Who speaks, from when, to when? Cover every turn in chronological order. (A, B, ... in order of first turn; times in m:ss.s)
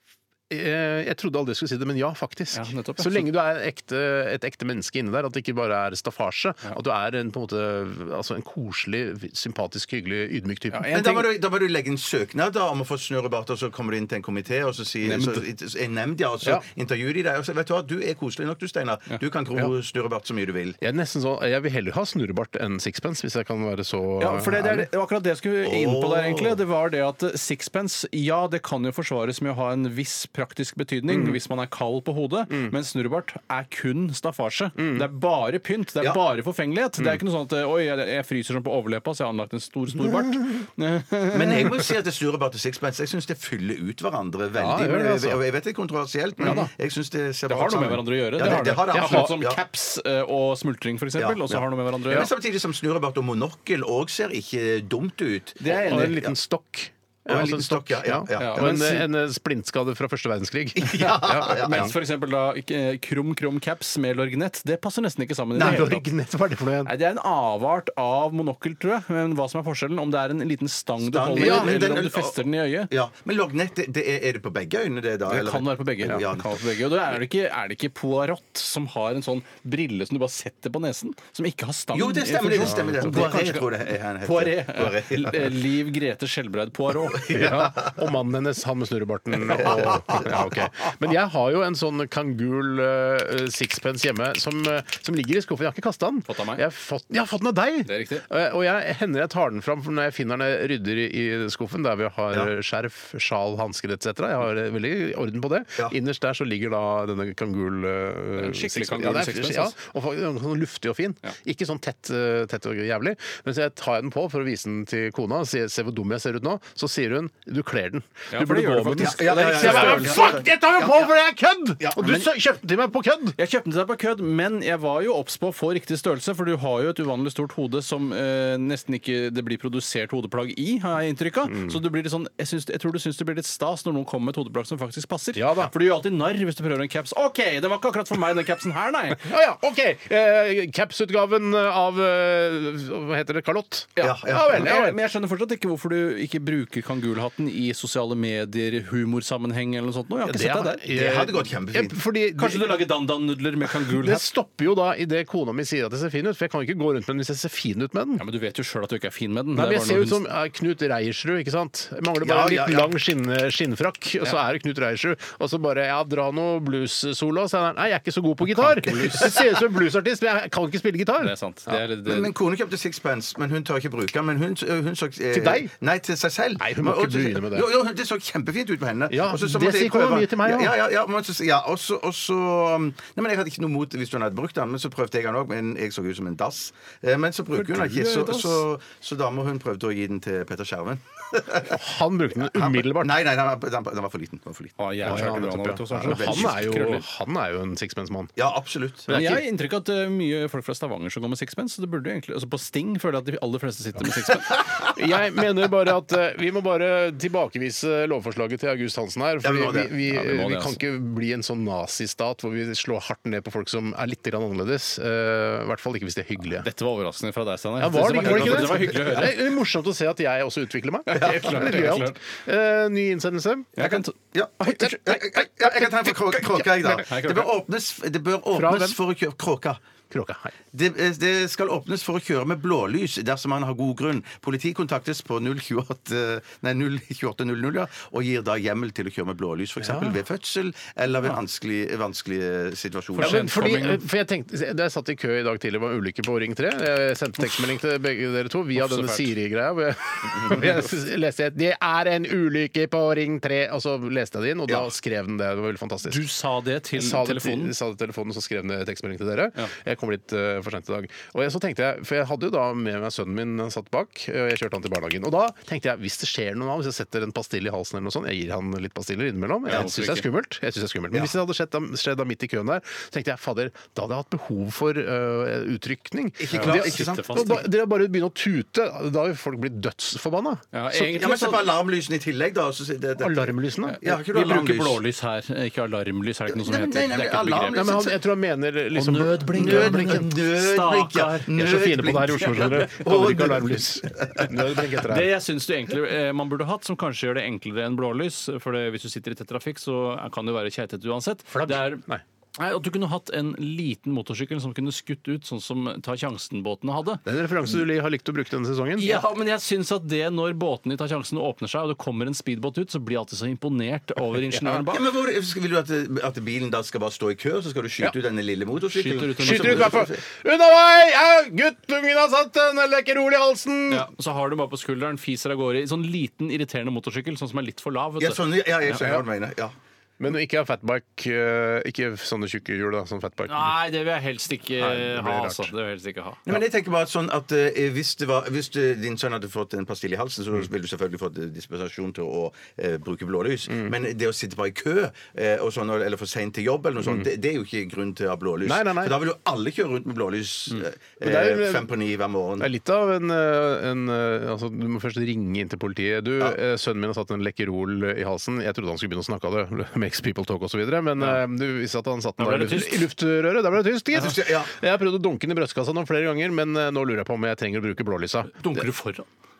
0:00.5-0:11.0 A
0:02.5-0:03.3 B
0:10.7-0:11.3 B
0:10.9-0:20.8 C
0:15.0-0:15.4 B
0:20.8-0:24.9 A
0:24.2-0:41.7 B
0:25.6-0:26.6 C
0:31.1-0:31.4 A
0:32.5-0:32.7 A
0:34.8-0:35.1 A
0:40.0-0:40.6 A
0:41.3-0:49.6 C
0:44.6-0:45.4 A
0:46.4-0:46.7 A
0:46.4-0:46.7 B
0:47.5-0:52.3 B
0:48.4-0:49.3 A
0:51.2-0:56.3 C
0:55.6-0:56.2 B
0:55.7-1:01.9 A
0:57.3-0:59.0 C
0:58.4-0:59.0 B
1:00.8-1:01.9 C
1:01.2-1:06.0 B
1:05.5-1:06.0 C
1:05.6-1:06.9 A
1:06.8-1:12.9 B
1:11.0-1:16.6 C
1:11.4-1:11.9 A
1:15.3-1:23.7 B
1:21.9-1:25.6 C
1:22.6-1:23.3 A
1:24.2-1:27.5 B
1:27.1-1:27.9 C
1:27.3-2:03.4 A
1:29.4-1:30.7 C
1:36.3-1:36.6 B
1:37.8-1:38.2 B
1:48.4-1:49.7 B
1:58.3-2:00.4 B
1:59.0-2:01.1 C
2:01.8-2:02.2 C
2:03.4-2:19.3 B
2:11.5-2:11.8 A
2:15.3-2:15.7 A
2:19.2-2:25.0 A
2:24.0-2:30.8 B
2:24.0-2:24.7 C
2:30.2-2:32.8 A
2:30.9-2:32.0 C
2:32.4-2:34.2 B
2:33.8-2:38.2 A
2:38.2-2:40.2 B
2:39.5-2:51.8 A
2:42.2-2:42.9 C
2:48.6-2:49.1 B
2:49.0-2:49.6 C
2:51.2-2:52.3 B
2:52.0-3:11.8 C
2:55.3-2:55.7 A
2:56.6-2:57.7 A
2:59.1-3:00.7 A
3:07.8-3:08.6 B
3:11.6-3:13.2 A
3:12.4-3:15.4 C
3:14.8-3:17.0 B
3:15.0-3:18.3 A
3:16.0-3:16.8 C
3:18.4-3:19.2 C
3:19.1-3:19.4 A
3:19.1-3:24.6 B
3:24.9-3:36.7 A
3:29.4-3:29.9 C
3:30.1-3:30.8 B
3:36.5-3:39.4 B
3:37.8-3:43.7 A
3:38.2-3:38.8 C
3:41.1-3:42.2 B
3:43.8-3:44.1 B
3:43.8-3:49.8 C
3:44.7-3:45.0 B
3:44.7-3:47.0 A
3:46.8-3:47.5 B
3:48.5-3:49.0 A
3:50.1-3:50.5 A
3:50.7-4:03.4 C
3:59.8-4:00.2 A
4:03.2-4:04.0 B
4:03.2-4:16.2 A
4:08.7-4:09.3 B
4:16.0-4:17.7 B
4:17.0-4:41.1 A
4:29.7-4:30.2 B
4:36.4-4:37.6 C
4:36.5-4:37.6 B
4:40.7-4:41.7 B
4:41.0-4:45.0 C
4:43.2-4:44.0 A
4:43.9-4:47.8 B
4:46.5-4:48.2 C
4:47.7-4:50.3 A
4:48.9-4:51.5 B
4:49.5-4:54.5 C
4:51.5-4:55.3 A
4:52.4-4:52.6 B
4:55.1-5:02.0 B
5:01.5-5:02.2 A
5:02.6-5:07.2 B
5:07.2-5:09.2 A
5:09.0-5:15.0 B
5:14.5-5:14.8 A
5:14.9-5:20.2 C
5:18.9-5:20.0 B
5:19.4-5:24.1 A
5:23.9-5:29.0 B
5:28.2-5:29.7 C
5:30.2-5:33.8 A
5:33.5-5:36.4 B
5:34.8-5:35.7 A
5:36.5-5:52.7 C
5:47.0-5:47.3 A
5:48.6-5:49.1 A
5:51.2-5:51.9 A
5:52.6-6:08.8 A
6:02.4-6:03.1 B
6:04.1-6:04.7 C
6:08.5-6:09.3 B